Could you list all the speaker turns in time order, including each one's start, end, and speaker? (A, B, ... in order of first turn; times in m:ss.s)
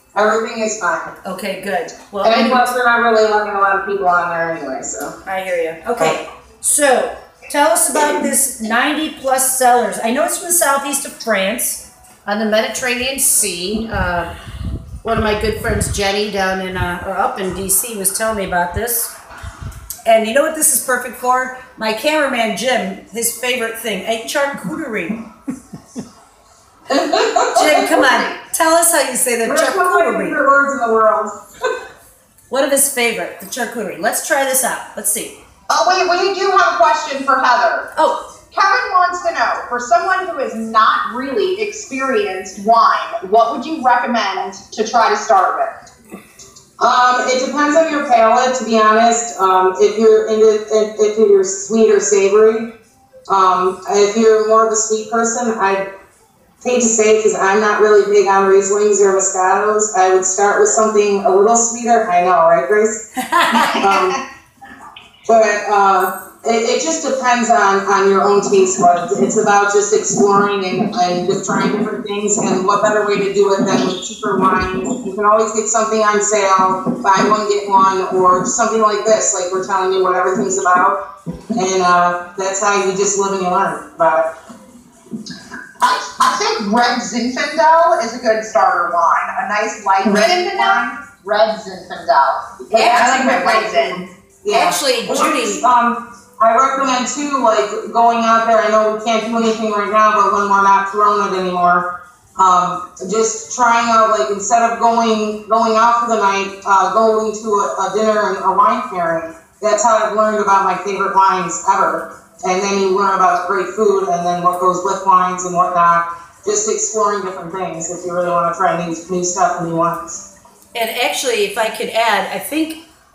0:00.1-0:01.1 A
0:01.2-0:02.7 B
0:02.2-0:05.2 A
0:05.2-0:14.3 B
0:15.0-0:19.1 B
0:20.0-0:25.2 B
0:26.9-0:28.1 A
0:27.5-0:30.4 B
0:29.4-0:31.4 A
0:32.5-0:35.4 B
0:35.7-0:37.9 C
0:38.0-0:38.2 B
0:38.5-0:45.8 C
0:46.8-0:52.7 A
0:53.3-0:55.9 A
0:56.6-1:03.0 A
1:03.2-1:03.9 B
1:03.8-1:04.2 A
1:05.2-1:21.0 A
1:21.5-1:24.3 A
1:25.8-1:34.0 C
1:30.0-1:30.8 A
1:32.7-2:00.2 A
1:34.5-1:35.6 B
2:00.7-2:02.8 B